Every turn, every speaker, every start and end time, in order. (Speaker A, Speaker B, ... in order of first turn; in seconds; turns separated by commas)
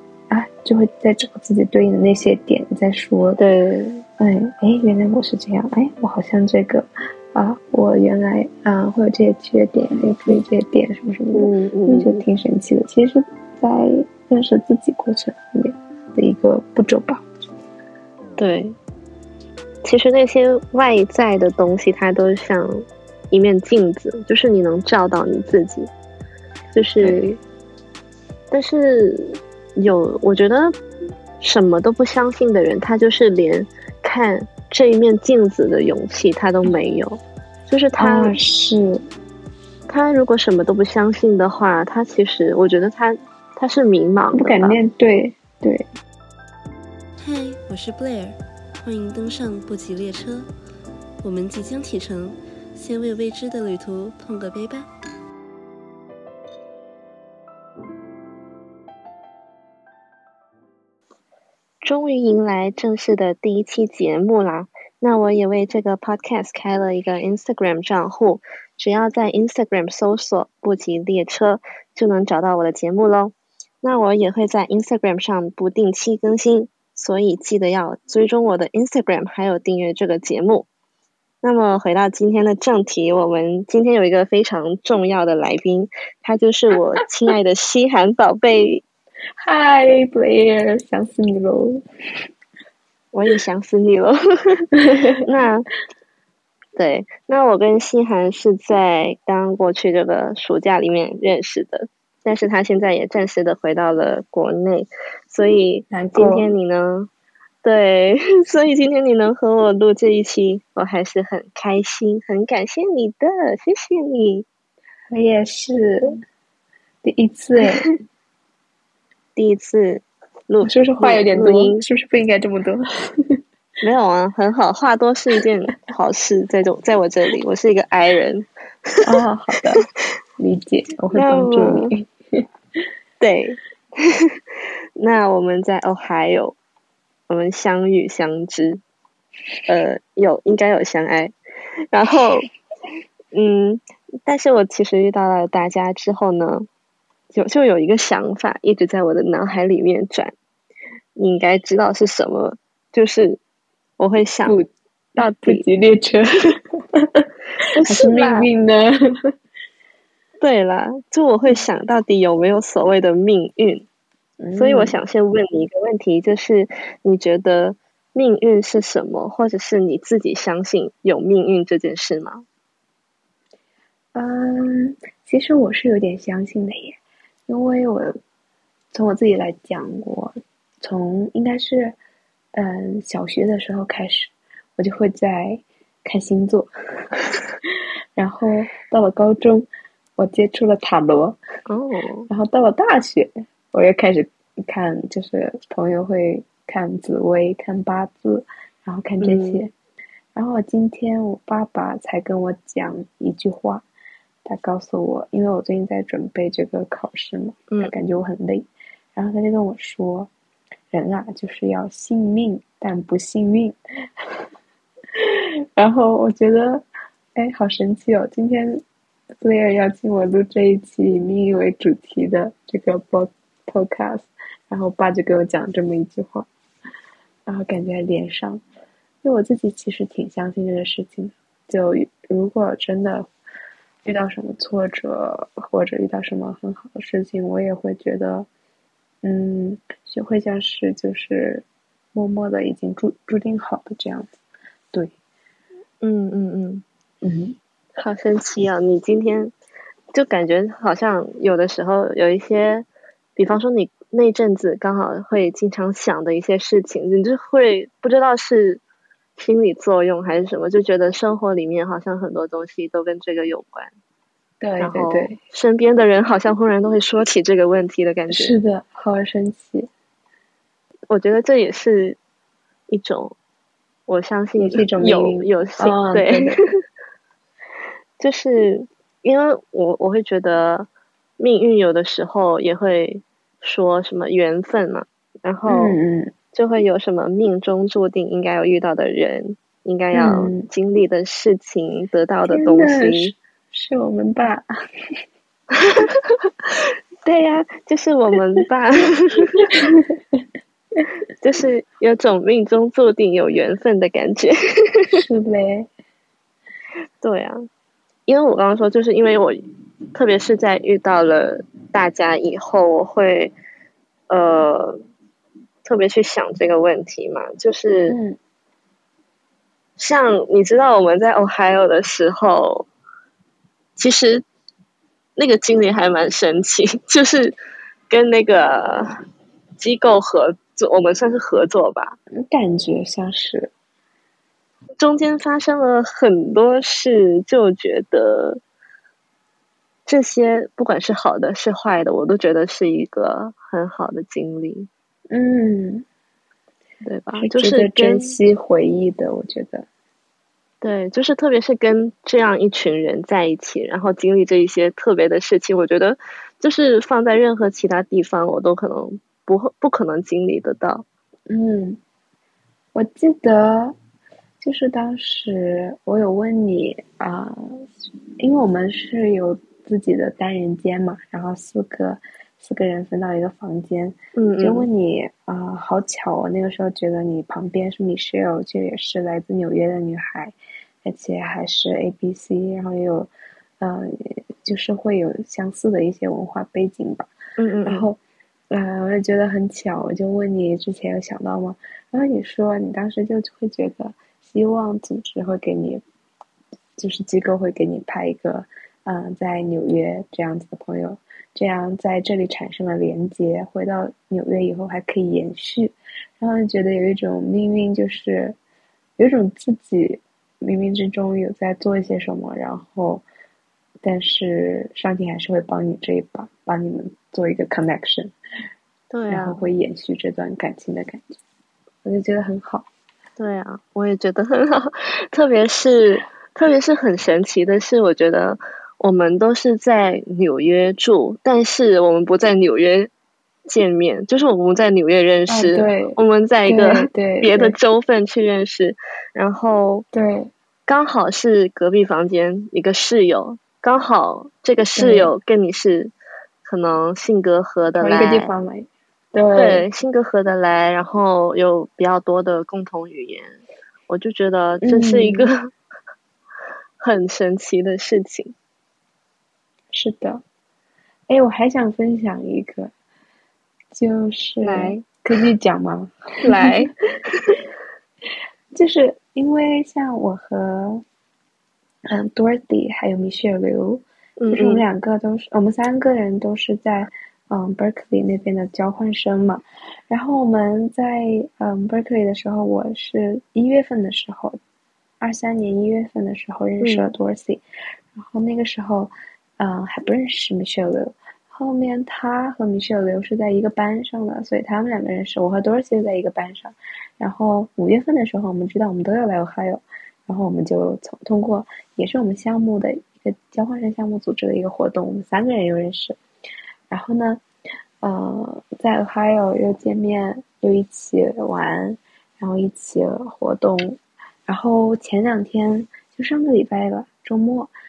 Speaker A: 0.3-3.4, Speaker B: 3.4-4.0, Speaker A: 4.2-17.2, Speaker B: 11.3-12.2, Speaker B: 18.4-18.8, Speaker B: 19.8-25.9, Speaker B: 26.7-27.4, Speaker A: 27.0-27.3, Speaker B: 28.5-30.8, Speaker B: 31.4-38.4, Speaker A: 38.0-39.0, Speaker B: 39.9-44.8, Speaker A: 44.3-45.9, Speaker C: 47.2-50.5, Speaker C: 51.2-54.9, Speaker B: 61.8-80.7, Speaker B: 81.4-88.8, Speaker A: 89.4-91.8, Speaker B: 93.1-95.7, Speaker A: 94.8-95.1, Speaker B: 96.8-107.1, Speaker A: 105.9-106.5, Speaker B: 107.6-114.5, Speaker A: 115.1-116.2, Speaker A: 117.0-117.9, Speaker B: 119.4-121.8, Speaker A: 120.6-122.8, Speaker B: 123.8-129.0, Speaker A: 129.0-129.9, Speaker A: 130.4-132.1, Speaker B: 131.1-131.9, Speaker B: 133.2-134.4, Speaker B: 135.0-136.6, Speaker B: 137.3-138.8, Speaker B: 139.7-141.3, Speaker B: 141.9-142.5, Speaker B: 143.3-146.7, Speaker B: 147.3-150.3, Speaker B: 151.2-153.4, Speaker B: 154.0-154.5, Speaker A: 154.4-156.3, Speaker B: 155.2-155.7, Speaker B: 157.8-158.5, Speaker A: 157.8-158.9, Speaker B: 160.4-163.9, Speaker A: 164.4-165.0, Speaker B: 164.6-172.4, Speaker A: 174.1-178.2, Speaker A: 178.9-182.0, Speaker A: 182.5-186.7, Speaker A: 188.2-191.4, Speaker B: 191.7-192.3, Speaker A: 192.3-199.7, Speaker B: 199.2-199.6, Speaker A: 200.3-203.8, Speaker A: 204.4-210.3, Speaker A: 210.9-213.8, Speaker A: 215.2-216.8, Speaker A: 217.4-218.8, Speaker A: 219.4-226.5, Speaker A: 227.5-228.6, Speaker A: 229.2-233.3, Speaker A: 234.1-238.5, Speaker A: 239.2-244.4, Speaker B: 246.0-246.8, Speaker A: 247.2-247.6, Speaker B: 247.9-249.5, Speaker B: 250.1-258.8, Speaker B: 259.4-263.9, Speaker A: 264.6-265.4, Speaker B: 264.8-268.5, Speaker A: 268.3-269.9, Speaker B: 271.1-272.2, Speaker B: 272.9-273.4, Speaker B: 274.1-276.5, Speaker A: 274.6-276.6, Speaker B: 278.2-286.0, Speaker A: 285.7-286.3, Speaker B: 286.5-293.3, Speaker A: 290.1-290.7, Speaker A: 292.5-294.6, Speaker B: 297.2-299.7, Speaker A: 299.7-300.1, Speaker B: 301.4-305.2, Speaker A: 305.1-305.9, Speaker B: 307.2-307.7, Speaker B: 308.3-309.6, Speaker B: 310.1-313.5, Speaker B: 314.3-315.0, Speaker B: 315.9-318.2, Speaker A: 318.1-318.4, Speaker B: 320.0-322.9, Speaker B: 324.0-324.4, Speaker B: 325.4-327.6, Speaker B: 328.1-329.1, Speaker B: 329.8-332.2, Speaker A: 332.4-333.7, Speaker B: 335.0-338.6, Speaker B: 340.1-344.9, Speaker A: 345.3-346.1, Speaker B: 347.0-348.4, Speaker A: 347.4-349.9, Speaker B: 350.8-361.1, Speaker A: 361.5-362.0, Speaker A: 362.9-363.9, Speaker A: 364.6-367.9, Speaker A: 368.4-387.3, Speaker B: 374.4-374.9, Speaker B: 387.6-388.1, Speaker A: 387.9-388.2, Speaker A: 388.7-396.0, Speaker A: 397.0-408.6, Speaker A: 409.2-413.2, Speaker A: 414.0-418.4, Speaker B: 419.1-419.6, Speaker A: 419.3-421.4, Speaker A: 422.1-422.9, Speaker B: 423.4-433.1, Speaker B: 433.7-440.1, Speaker A: 435.5-437.8, Speaker A: 440.1-440.5, Speaker B: 440.9-446.1, Speaker A: 444.9-445.3, Speaker B: 446.6-448.5, Speaker A: 448.0-449.9, Speaker B: 449.6-453.6, Speaker B: 454.1-455.7, Speaker A: 454.8-455.5, Speaker B: 457.0-458.6, Speaker A: 459.9-460.4, Speaker A: 461.3-462.9, Speaker A: 463.9-466.9, Speaker B: 464.6-465.1, Speaker B: 466.4-467.5, Speaker A: 468.7-471.0, Speaker A: 472.1-484.6, Speaker B: 474.4-474.9, Speaker A: 485.2-487.6, Speaker B: 486.8-487.1, Speaker A: 488.1-506.2, Speaker A: 506.9-507.4, Speaker A: 508.0-517.7